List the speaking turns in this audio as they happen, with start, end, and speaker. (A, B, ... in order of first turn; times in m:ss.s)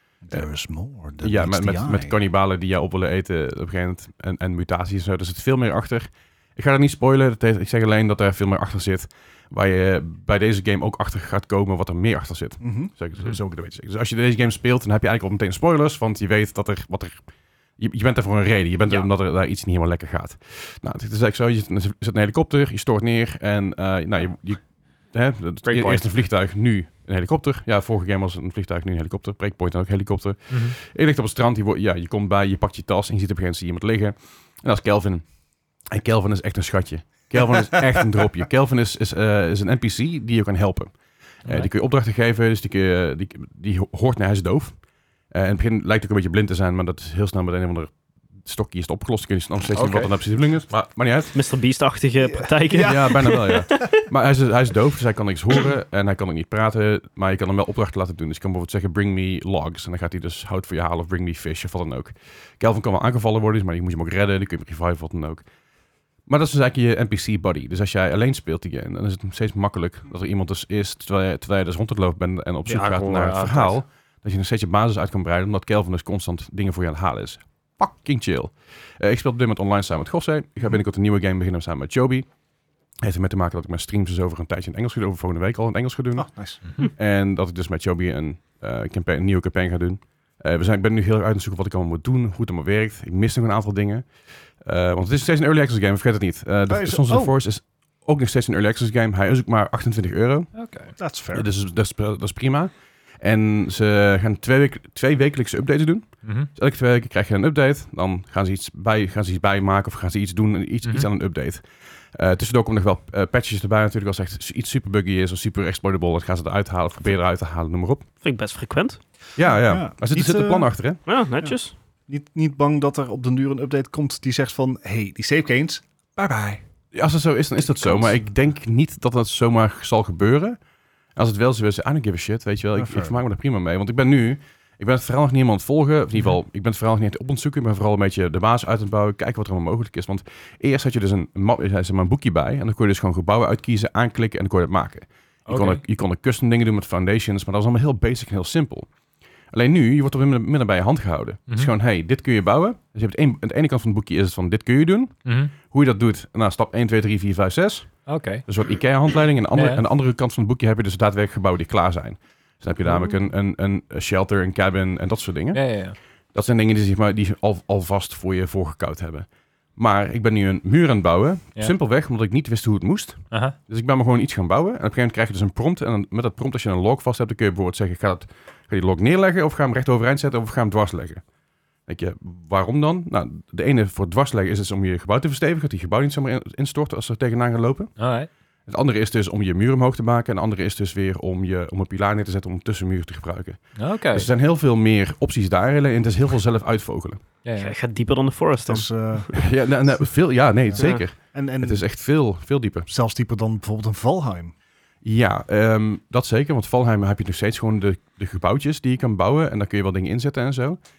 0:00.3-0:02.2 A
0:01.2-0:17.2 B
0:12.6-0:12.9 A
0:17.8-0:51.4 B
0:25.6-0:26.1 C
0:30.5-0:30.8 C
0:49.8-0:50.1 C
0:51.3-0:53.8 D
0:52.3-0:53.6 A
0:52.8-1:05.4 B
1:06.3-1:22.3 B
1:12.7-1:13.8 C
1:23.0-1:34.1 B
1:26.2-1:26.6 A
1:34.6-1:40.6 B
1:36.7-1:37.4 A
1:40.5-1:40.9 C
1:41.0-1:41.5 A
1:41.3-1:58.1 B
1:46.2-1:46.5 C
1:58.2-1:59.0 D
1:59.4-2:01.0 B
1:59.4-2:00.7 A
2:01.1-2:01.8 D
2:02.1-2:06.6 A
2:06.9-2:10.6 B
2:07.8-2:08.3 A
2:11.2-2:28.9 B
2:12.8-2:13.2 A
2:25.5-2:25.8 C
2:29.5-3:01.2 B
2:35.3-2:35.5 C
2:38.1-2:38.4 C
2:39.5-2:39.8 C
2:42.8-2:43.2 C
2:45.5-2:46.0 C
3:01.9-3:08.1 B
3:08.0-3:08.3 C
3:08.7-3:17.2 B
3:13.8-3:14.3 C
3:17.4-3:17.8 C
3:17.6-3:19.4 D
3:18.7-3:19.3 A
3:19.3-3:22.9 B
3:20.7-3:21.8 A
3:20.8-3:21.1 D
3:22.9-3:24.5 A
3:25.0-3:30.8 B